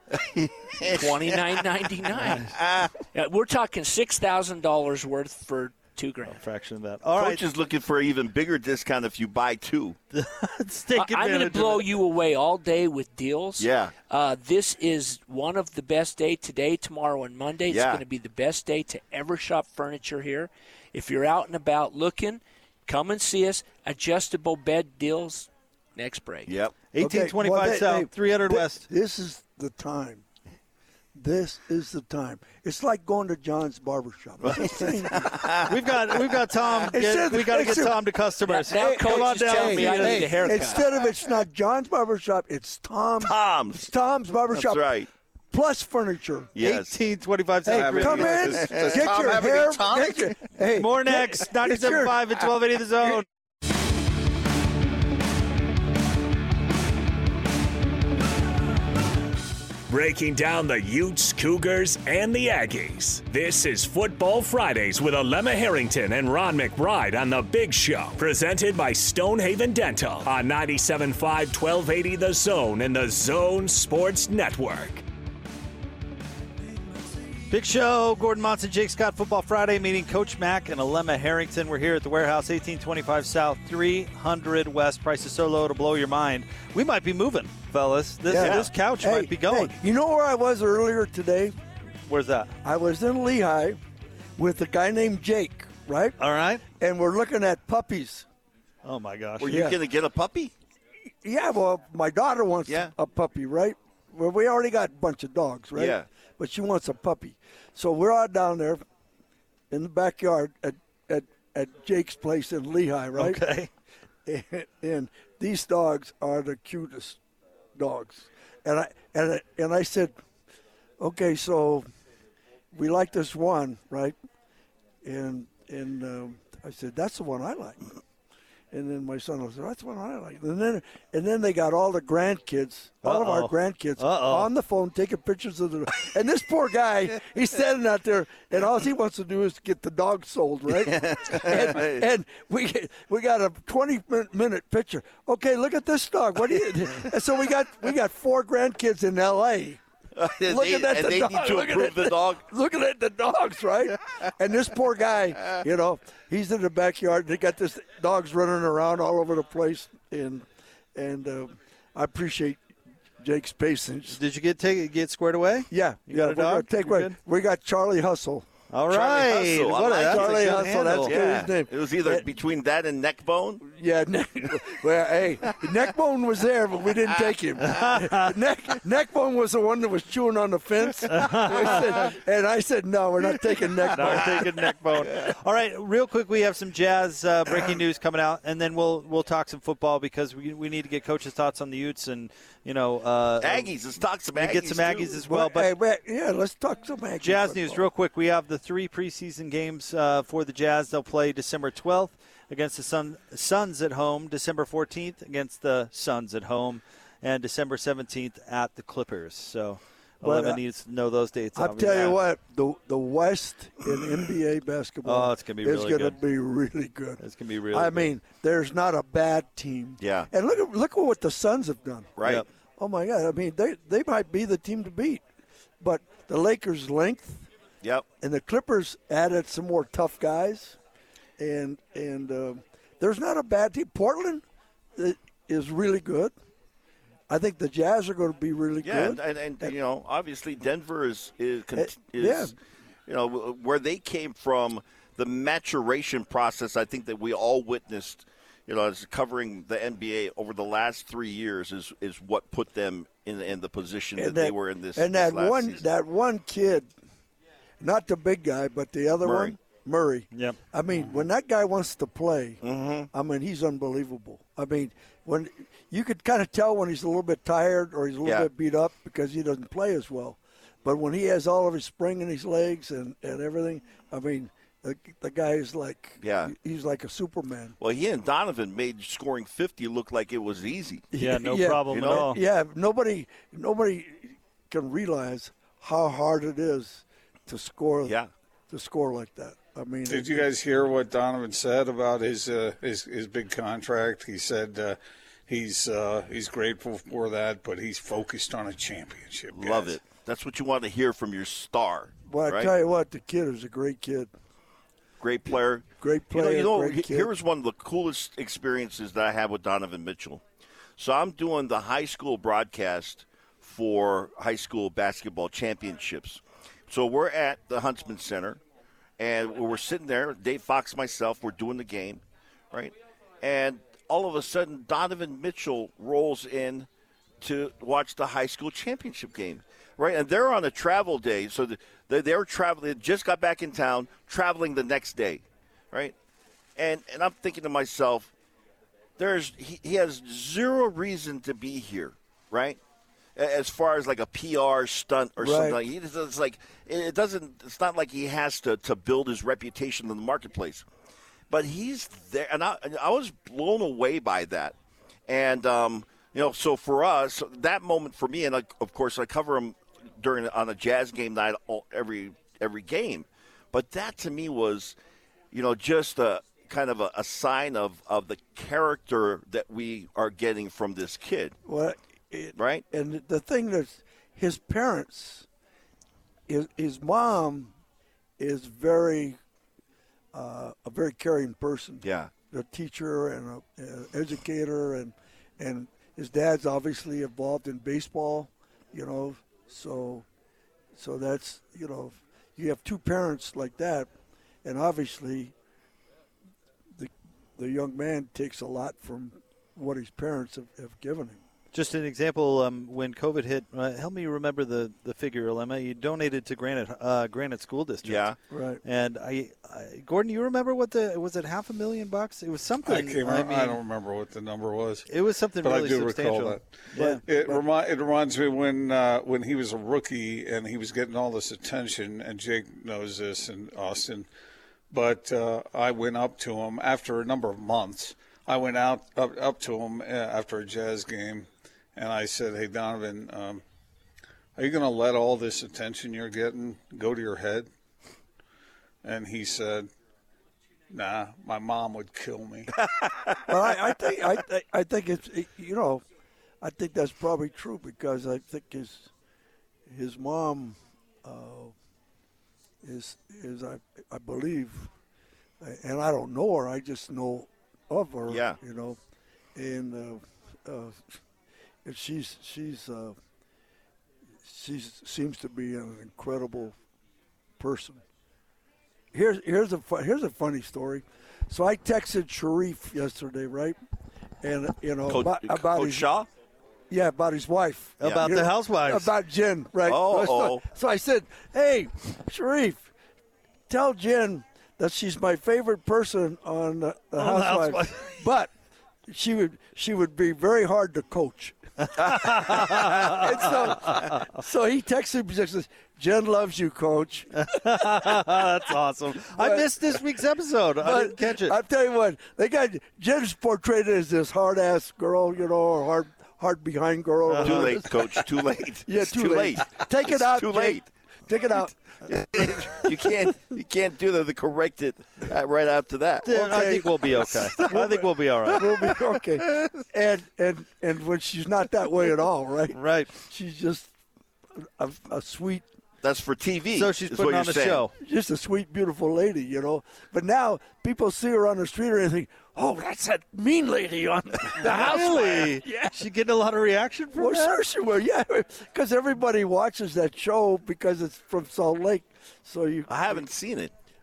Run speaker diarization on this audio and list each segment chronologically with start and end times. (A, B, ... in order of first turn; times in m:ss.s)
0:00.1-0:02.9 A
0:00.8-0:06.4 B
0:06.3-0:07.4 C
0:07.1-0:10.0 A
0:10.1-0:11.9 C
0:10.9-0:26.6 B
0:13.6-0:13.9 A
0:17.7-0:18.0 A
0:26.5-0:26.8 A
0:26.9-0:28.8 C
0:27.0-0:30.2 D
0:31.2-0:35.6 D
0:34.5-0:36.3 A
0:35.7-0:40.3 C
0:36.9-0:38.1 D
0:38.5-0:40.9 B
0:38.7-0:44.9 D
0:43.2-0:43.9 A
0:44.5-0:45.1 A
0:45.5-0:46.6 D
0:46.6-0:47.0 A
0:46.6-0:48.4 C
0:47.7-0:52.3 D
0:47.7-0:50.4 E
0:48.6-0:49.0 A
0:50.8-0:53.2 C
0:59.9-1:15.0 F
1:17.5-1:29.7 C
1:28.3-1:31.6 D
1:28.3-1:28.7 A
1:32.1-1:32.5 C
1:32.6-1:33.8 D
1:34.4-1:36.2 D
1:36.2-1:36.6 C
1:36.7-1:38.3 D
1:38.8-1:39.5 C
1:39.4-1:40.5 A
1:39.5-1:39.8 D
1:41.2-1:48.8 D
1:42.7-1:42.9 A
1:45.7-1:46.1 A
1:49.7-1:53.4 D
1:53.2-1:53.7 C
1:54.3-1:57.2 D
1:57.8-2:00.1 D
2:01.0-2:01.9 D
2:02.7-2:04.2 D
2:05.0-2:07.9 D
2:08.7-2:29.8 D
2:13.0-2:14.5 C
2:20.7-2:22.1 A
2:30.2-2:32.4 A
2:30.4-2:40.4 D
2:41.0-2:42.6 D
2:43.2-2:44.2 D
2:44.1-2:47.1 C
2:45.7-2:48.5 D
2:48.7-2:51.1 C
2:48.9-2:53.6 A
2:49.8-2:52.3 D
2:53.6-3:04.6 D
3:04.0-3:13.7 C
3:04.0-3:04.4 A
3:05.0-3:05.3 A
3:13.4-3:15.2 A
3:14.4-3:15.7 C
3:15.2-3:17.9 D
3:17.2-3:32.2 C
3:30.2-3:30.6 D
3:31.6-3:42.2 D
3:35.1-3:36.2 C
3:37.2-3:38.1 C
3:40.0-3:40.3 A
3:42.2-3:42.5 A
3:42.8-3:45.2 D
3:45.8-3:47.5 D
3:48.2-3:50.8 D
3:51.4-3:54.4 D
3:55.0-3:56.3 D
3:57.3-3:59.7 D
3:58.8-4:02.6 A
4:01.8-4:02.6 D
4:03.1-4:15.8 A
4:14.2-4:16.9 D
4:17.8-4:37.8 D
4:19.2-4:19.6 A
4:22.6-4:23.1 A
4:28.2-4:28.5 A
4:36.2-4:36.6 A
4:37.8-4:41.1 A
4:41.1-4:48.2 D
4:41.2-4:42.4 C
4:41.9-4:42.3 A
4:48.0-4:48.3 A
4:48.7-4:50.5 D
4:50.1-4:55.0 E
4:55.5-5:00.0 E
4:59.5-5:02.7 A
5:02.3-5:04.3 D
5:05.2-5:10.4 A
5:06.0-5:07.3 D
5:11.0-5:18.6 A
5:19.2-5:26.9 A
5:27.4-5:36.2 A
5:36.8-5:38.3 A
5:39.2-5:42.8 A
5:43.4-5:50.9 A
5:45.4-5:45.8 D
5:51.5-5:54.8 A
5:55.3-6:05.0 A
6:05.5-6:11.6 A
6:11.7-6:15.5 D
6:12.6-6:12.9 A
6:16.5-6:17.7 D
6:18.4-6:19.4 D
6:20.3-6:30.2 D
6:22.0-6:22.3 A
6:31.0-6:34.1 D
6:34.6-6:35.5 D
6:37.0-6:41.4 D
6:41.7-6:48.3 C
6:48.0-6:48.4 A
6:48.5-6:48.8 D
6:48.9-6:53.8 C
6:52.8-6:55.1 E
6:55.1-6:57.2 C
6:55.6-7:04.3 E
6:57.0-6:57.6 D
7:04.9-7:13.6 E
7:14.6-7:17.7 E
7:19.0-7:19.9 E
7:20.9-7:22.7 E
7:22.9-7:23.4 A
7:23.5-7:26.0 D
7:26.6-7:29.1 D
7:29.9-7:31.7 D
7:32.8-7:34.9 D
7:35.6-7:39.0 D
7:38.3-7:38.6 A
7:39.6-7:41.0 D
7:41.8-7:43.2 D
7:44.4-7:46.8 D
7:47.6-7:48.0 D
7:49.1-7:53.8 D
7:54.4-7:56.1 D
7:55.1-7:56.3 A
7:56.9-8:02.9 D
7:58.0-7:59.1 C
7:58.0-7:58.3 A
7:59.8-8:00.6 A
8:03.7-8:08.5 D
8:07.2-8:08.0 C
8:09.1-8:18.4 D
8:12.6-8:12.8 C
8:17.5-8:21.5 C
8:19.2-8:20.0 D
8:20.8-8:28.2 D
8:27.3-8:27.7 C
8:27.4-8:30.9 A
8:28.9-8:33.1 D
8:32.1-8:36.3 A
8:36.2-8:38.6 C
8:36.3-8:43.9 D
8:42.7-8:43.1 C
8:44.6-8:45.7 D
8:46.0-8:47.9 A
8:46.8-8:47.9 C
8:48.0-8:56.0 D
8:54.6-8:57.5 C
8:57.2-9:03.3 D
9:02.9-9:03.7 A